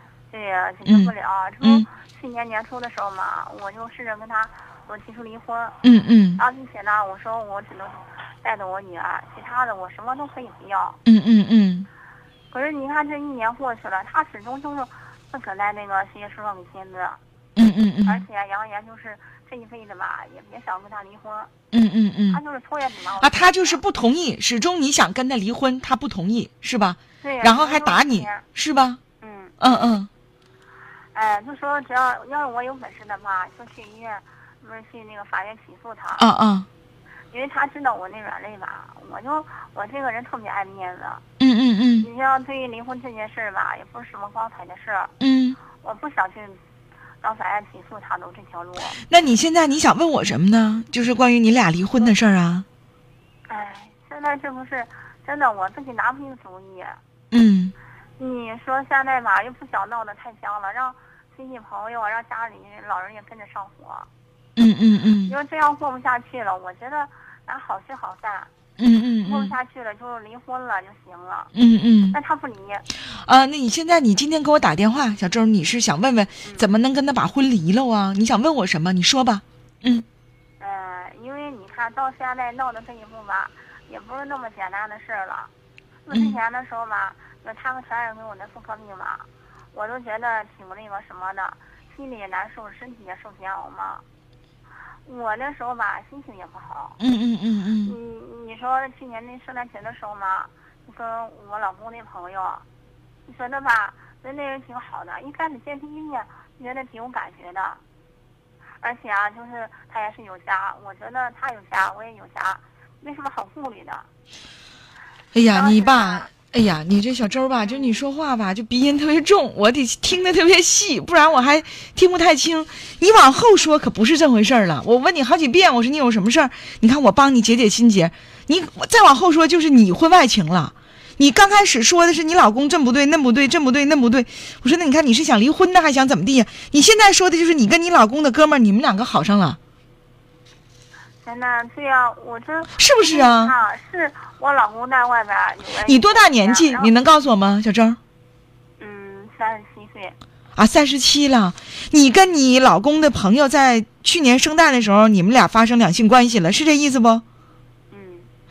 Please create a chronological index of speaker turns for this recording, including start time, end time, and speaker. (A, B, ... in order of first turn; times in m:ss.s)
0:00.3-0:05.8 A
0:00.8-0:01.9 B
0:05.8-0:06.4 B
0:06.4-0:11.0 A
0:11.0-0:11.9 B
0:12.5-0:17.2 A
0:17.6-0:18.2 B
0:18.0-0:21.5 A
0:21.7-0:22.4 B
0:22.3-0:23.8 A
0:23.2-0:29.0 B
0:27.2-0:28.4 A
0:29.2-0:30.0 A
0:29.6-0:30.1 B
0:31.1-0:36.2 A
0:36.2-0:36.7 B
0:37.3-0:41.2 A
0:41.4-0:42.1 B
0:42.0-0:45.1 A
0:45.2-0:45.6 B
0:45.7-0:46.6 A
0:47.2-0:49.0 A
0:49.1-0:52.6 B
0:53.5-0:57.0 A
0:57.3-0:57.7 B
0:58.2-1:04.1 A
1:04.6-1:05.3 B
1:05.2-1:08.5 A
1:08.8-1:09.6 B
1:09.2-1:11.5 A
1:11.5-1:12.2 B
1:12.1-1:12.8 A
1:13.1-1:20.0 B
1:16.4-1:16.7 A
1:20.6-1:25.5 A
1:26.1-1:34.0 A
1:26.1-1:26.4 B
1:35.0-1:37.0 A
1:37.0-1:38.0 B
1:37.8-1:42.6 A
1:43.2-1:47.8 A
1:48.8-1:54.1 A
1:55.3-2:19.6 B
1:55.5-1:56.3 A
1:57.6-1:58.0 A
2:21.2-2:26.9 A
2:22.8-2:23.5 B
2:25.8-2:28.0 B
2:28.8-2:30.2 A
2:30.5-2:37.2 B
2:37.9-2:38.3 A